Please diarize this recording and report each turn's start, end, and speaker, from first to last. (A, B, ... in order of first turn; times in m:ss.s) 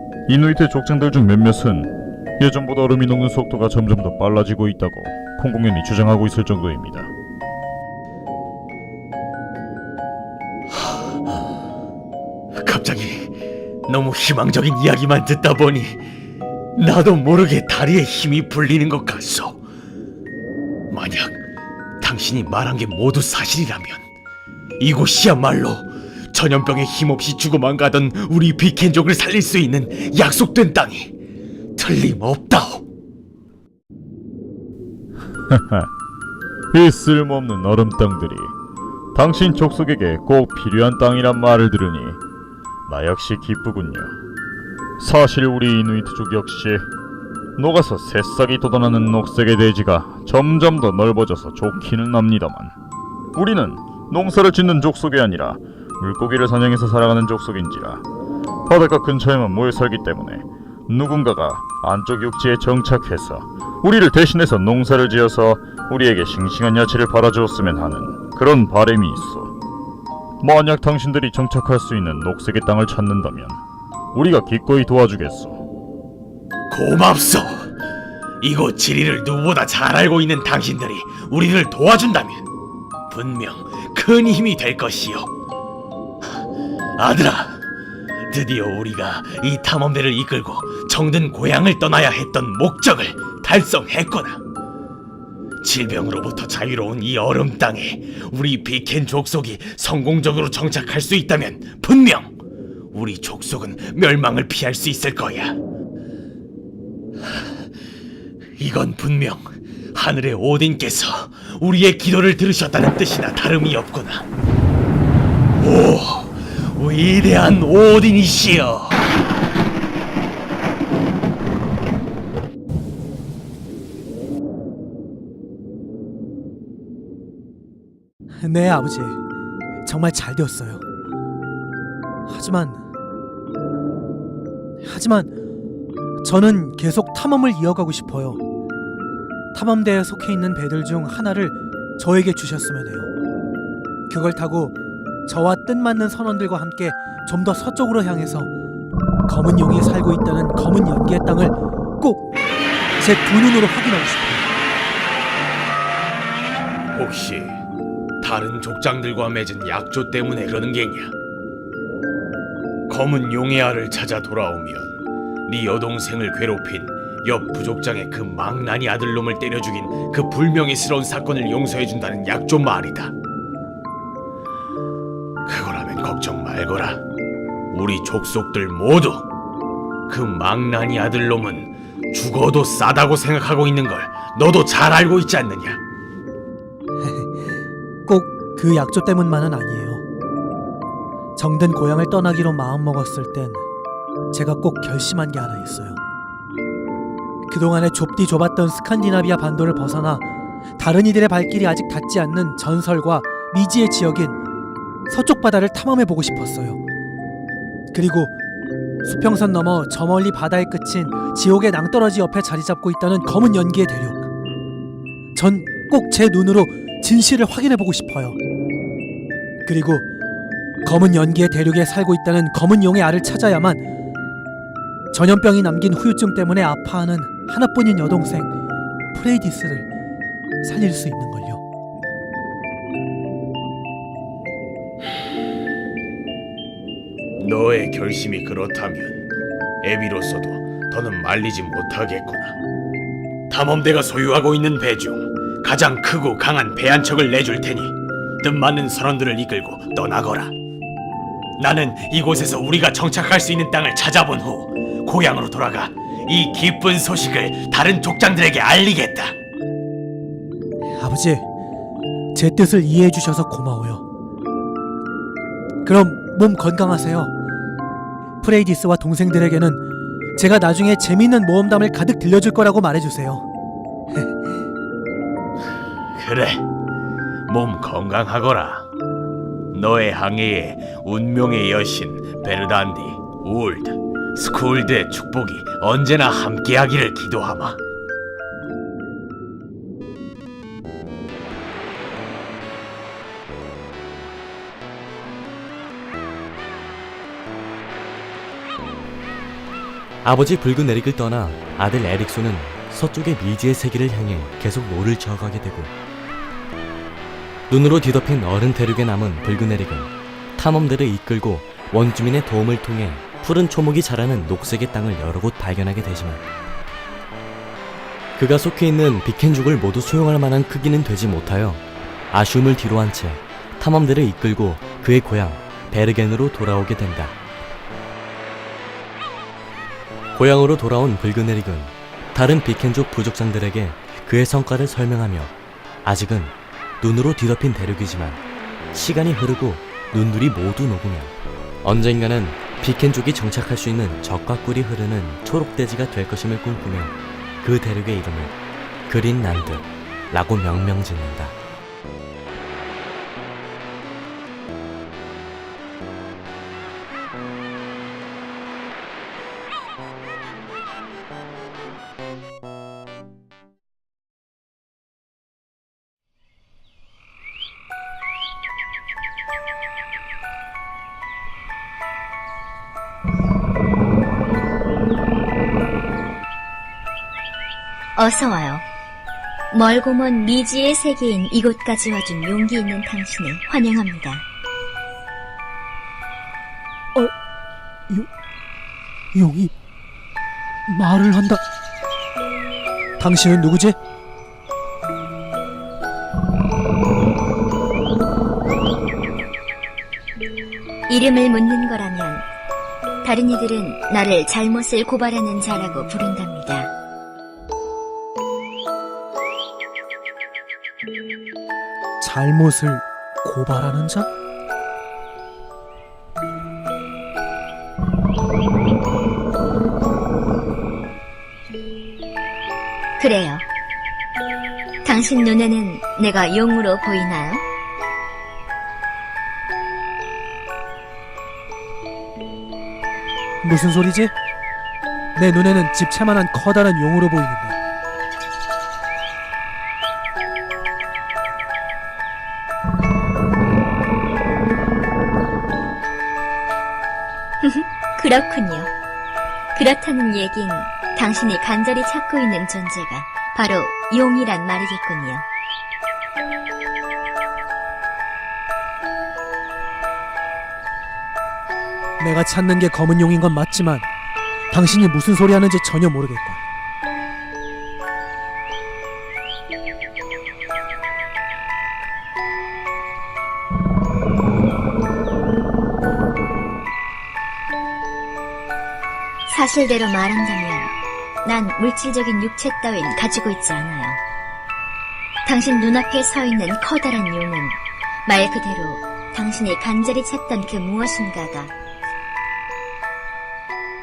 0:00.3-0:07.1 A
0:12.6-0:13.3 B
0:13.9-0:16.0 B
0:16.8-0:19.6 B
0:20.9-0:21.4 B
0:22.0-0:24.0 B
0:24.8-0:31.1 B
0:31.8-0:32.8 B
0:35.5-0:35.9 A
0:36.7-0:38.5 A
0:39.1-0:42.2 A
0:42.9-0:44.2 A
0:45.0-0:46.9 A
0:47.6-0:52.8 A
0:53.3-0:58.0 A
0:58.7-1:09.5 A
1:10.4-1:13.6 A
1:14.1-1:15.6 A
1:16.7-1:17.7 B
1:18.4-1:22.5 B
1:23.1-1:25.3 B
1:27.0-1:27.6 B
1:28.3-1:34.4 B
1:35.6-1:42.3 B
1:42.9-1:45.6 B
1:48.6-1:54.3 B
1:55.6-1:59.1 B
2:08.4-2:09.2 C
2:09.8-2:10.8 C
2:12.3-2:12.8 C
2:14.8-2:15.3 C
2:16.2-2:18.4 C
2:19.5-2:23.1 C
2:24.1-2:28.5 C
2:29.2-2:32.3 C
2:33.0-2:34.5 C
2:36.9-2:37.6 B
2:38.2-2:41.1 B
2:42.9-2:53.1 B
2:55.5-2:57.0 B
2:57.7-2:59.3 B
3:00.1-3:05.8 B
3:07.0-3:07.3 C
3:08.0-3:10.0 C
3:11.4-3:13.6 C
3:14.3-3:16.0 C
3:17.5-3:20.2 C
3:20.8-3:24.4 C
3:25.1-3:26.8 C
3:27.9-3:28.3 C
3:29.0-3:34.2 C
3:35.3-3:38.4 C
3:39.6-3:40.0 C
3:40.8-3:43.8 C
3:45.1-3:48.5 C
3:49.1-3:49.9 C
3:50.6-3:51.6 C
3:57.4-3:59.2 B
3:59.8-4:02.6 B
4:03.5-4:10.6 B
4:11.6-4:19.4 B
4:21.0-4:21.4 C
4:22.3-4:24.0 C
4:25.8-4:27.3 C
4:28.4-4:29.8 C
4:30.4-4:33.4 C
4:36.2-4:36.6 B
4:37.5-4:38.9 B
4:39.7-4:47.8 B
5:00.2-5:05.9 D
5:07.7-5:16.4 D
5:18.4-5:27.4 D
5:30.3-5:48.6 D
5:49.1-5:51.6 D
6:18.2-6:18.8 E
6:19.7-6:24.4 E
6:29.3-6:29.7 C
6:30.9-6:31.6 C
6:33.2-6:34.0 C
6:41.1-6:42.5 E
6:43.2-6:46.9 E
6:52.2-6:54.3 C
7:03.2-7:03.7 E
7:05.0-7:07.6 E
7:13.6-7:14.3 C
7:15.3-7:17.8 C
7:27.6-7:28.9 E
7:29.7-7:35.4 E
7:42.2-7:44.1 C
7:44.7-7:46.6 C
7:59.5-8:04.2 E
8:05.4-8:11.7 E